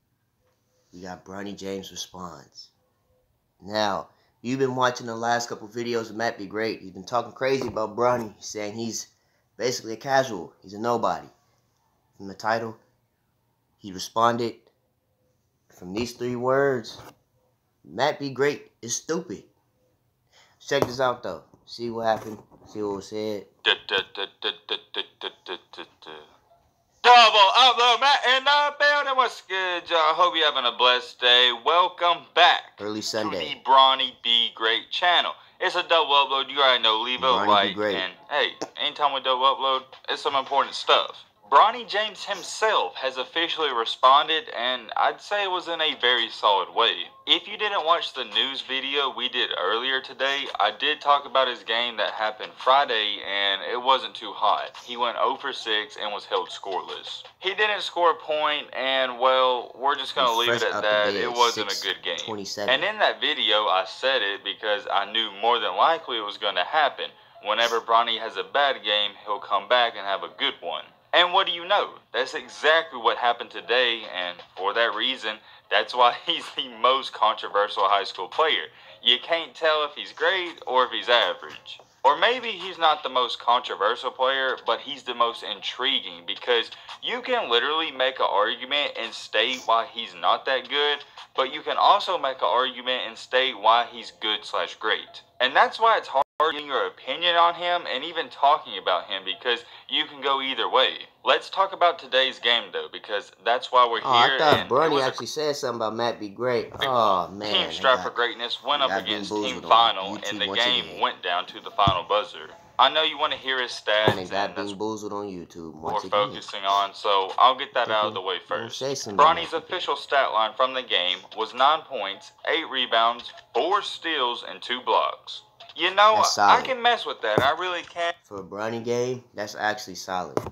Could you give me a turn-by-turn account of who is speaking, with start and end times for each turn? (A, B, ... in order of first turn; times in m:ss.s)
0:00.9-0:02.7 A
0:03.6-0:11.3 A
0:12.2-0:12.8 A
0:13.8-0:14.7 A
0:15.7-0:17.0 A
0:17.8-0:19.5 A
0:20.6-0:23.5 A
0:23.6-0:26.3 B
0:27.0-1:45.2 B
0:32.8-0:33.6 A
0:37.2-0:38.1 A
1:00.2-1:02.9 A
1:44.0-1:48.2 A
1:46.8-1:54.8 B
1:48.7-1:51.0 A
1:54.0-1:56.5 A
1:55.8-2:08.1 B
1:57.8-1:59.9 A
2:06.1-2:06.8 A
2:08.2-2:10.4 A